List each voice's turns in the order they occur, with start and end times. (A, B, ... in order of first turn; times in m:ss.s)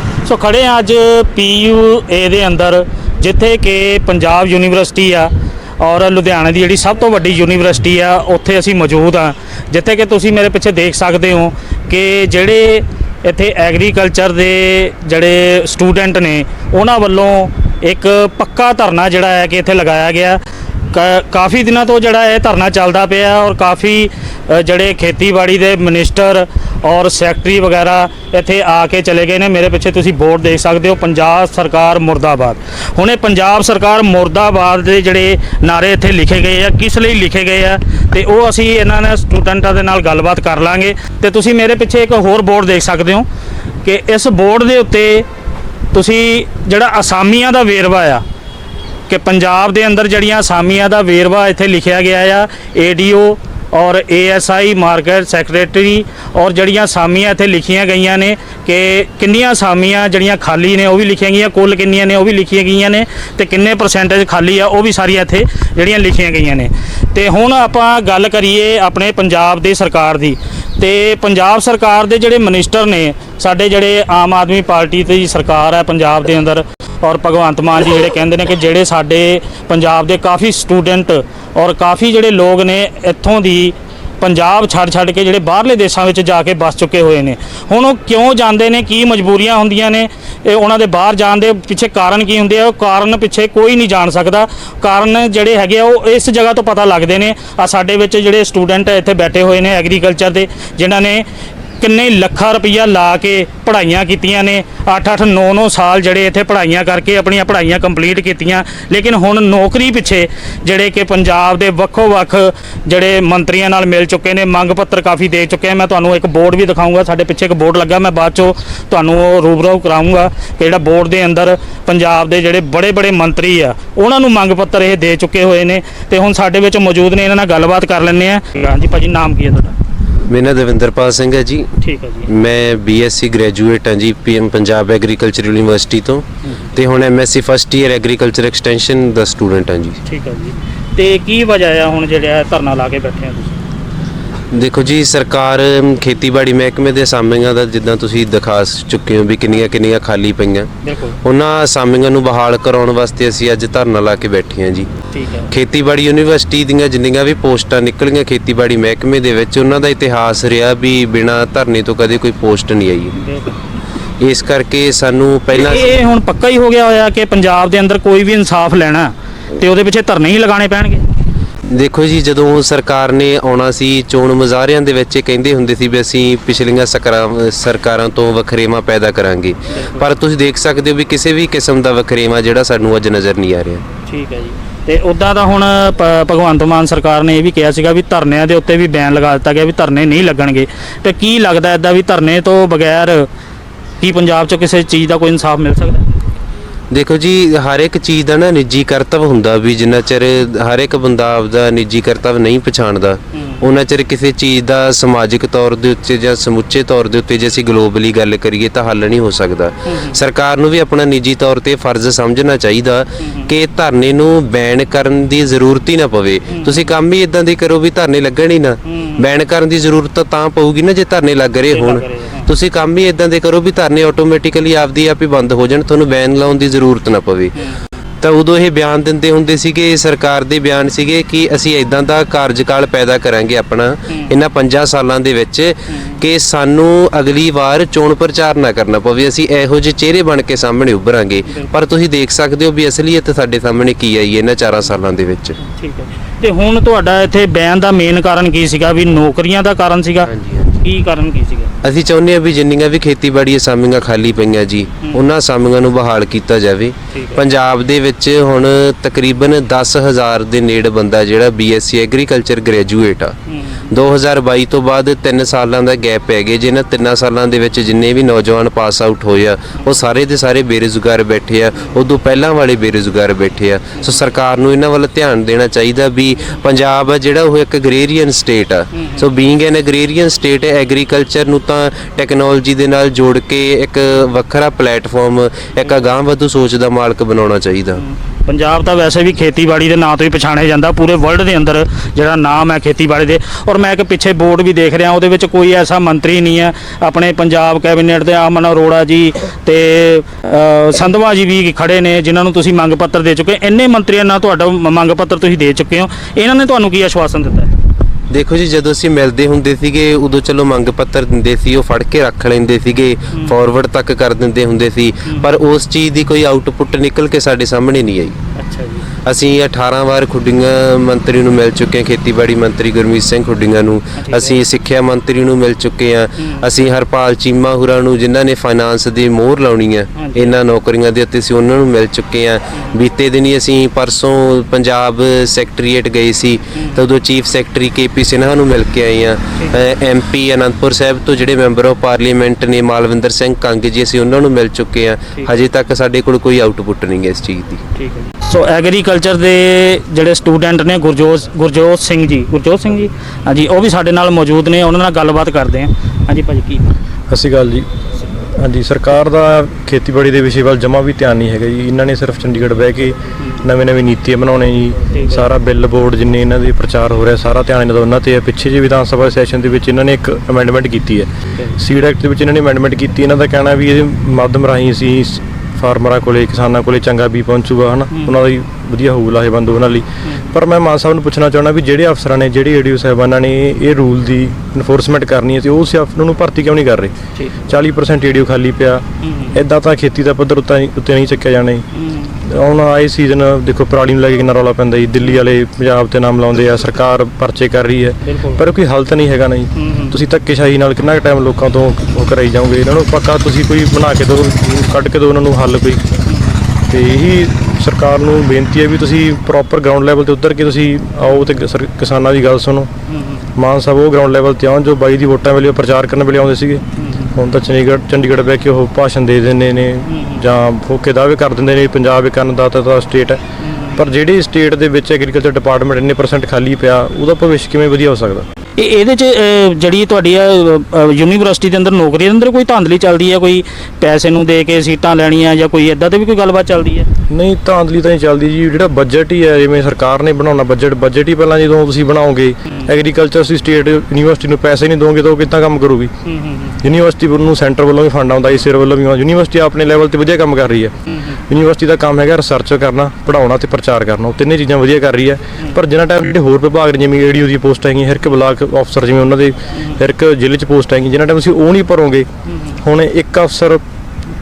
0:00.2-0:43.2 A
0:43.8-0:45.3 A
0:45.9-0:48.2 A
0:49.1-1:41.2 A
1:41.8-2:09.8 A
2:10.3-2:11.7 B
2:11.8-2:12.3 A
2:12.3-2:20.0 B
2:20.0-2:23.6 A
2:24.5-2:30.7 B
2:30.8-2:31.2 A
2:31.2-2:34.9 B
2:35.1-2:35.5 A
2:35.5-2:43.2 B
2:43.1-2:43.6 A
2:44.2-2:45.9 B
2:45.5-2:51.0 A
2:51.7-3:03.8 B
2:59.8-3:00.0 A
3:04.1-3:13.3 A
3:14.0-3:16.1 A
3:16.9-3:47.6 B
3:23.3-3:23.6 A
3:29.9-3:30.2 A
3:33.2-3:33.5 A
3:36.5-3:36.9 A
3:38.8-3:39.2 A
3:41.7-3:42.5 A
3:48.2-4:05.6 B
3:55.9-3:56.2 A
4:01.5-4:01.7 A
4:05.6-4:10.3 A
4:10.3-4:10.8 B
4:10.8-4:11.7 A
4:11.8-4:23.4 B
4:17.1-4:17.4 A
4:23.5-4:23.9 A
4:23.9-4:48.0 B
4:38.9-4:39.3 A
4:47.9-5:07.7 A
5:08.3-5:18.3 B
5:18.6-5:19.1 A
5:19.2-5:47.8 B
5:24.2-5:24.6 A
5:26.4-5:26.7 A
5:30.1-5:30.5 A
5:48.0-5:56.9 A
5:57.3-6:27.1 C
6:05.1-6:05.4 A
6:20.2-6:20.5 A
6:27.4-6:27.6 A
6:27.7-6:31.8 C
6:29.2-6:29.6 A
6:31.9-6:32.4 A
6:32.4-6:46.0 C
6:38.2-6:38.6 A
6:39.7-6:40.2 A
6:46.2-6:46.6 A
6:46.9-6:52.9 C
6:53.1-6:53.4 A
6:53.6-7:03.4 C
6:57.0-6:57.4 A
7:00.1-7:00.4 A
7:03.6-7:04.0 A
7:04.0-7:08.4 C
7:08.8-7:17.1 A
7:17.3-7:26.1 C
7:26.2-7:26.8 A
7:26.8-7:31.0 C
7:31.1-7:31.4 A
7:31.5-7:42.3 C
7:42.5-7:42.8 A
7:42.8-7:43.8 C